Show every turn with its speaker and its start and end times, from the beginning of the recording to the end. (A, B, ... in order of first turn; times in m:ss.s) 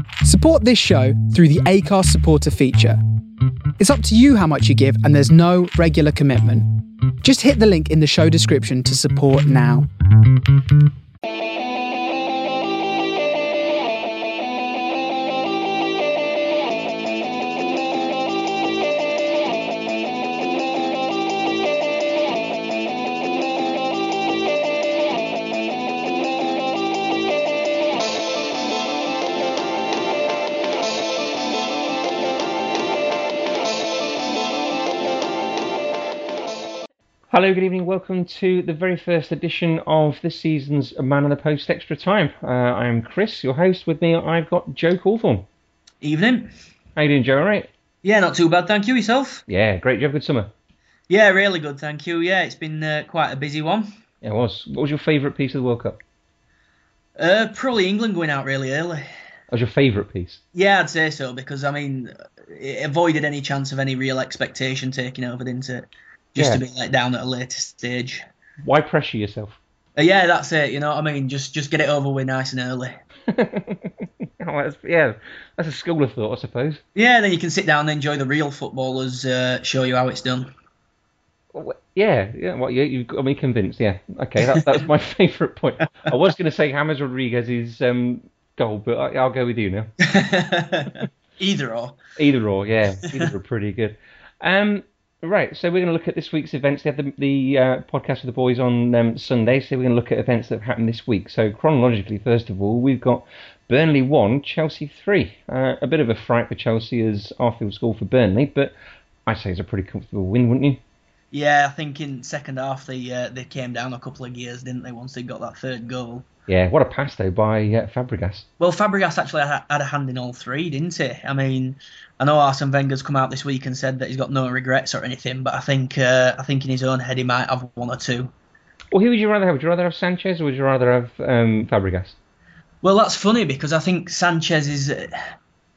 0:00.2-0:03.0 A
0:03.8-0:06.6 A
0:07.2-0:09.9 A
0:37.3-0:45.4 B
0:46.0-0:46.5 C
0:47.0-0:47.7 B
0:48.0-0:49.4 C
0:49.5-0:50.5 B
0:51.1-0:53.8 C
0:54.2-0:56.0 B
0:57.2-0:59.0 C
0:59.5-1:00.4 B
1:00.5-1:08.2 C
1:06.4-1:06.6 B
1:08.6-1:09.6 B
1:10.0-1:12.9 C
1:13.3-1:16.8 B
1:16.9-1:20.5 C
1:21.5-1:29.9 B
1:24.5-1:24.8 C
1:30.0-1:32.0 C
1:32.2-1:48.7 B
1:49.2-1:50.8 B
1:51.3-1:56.2 C
1:56.5-1:58.5 B
1:58.6-2:08.3 C
2:08.9-2:12.2 B
2:12.8-2:15.3 C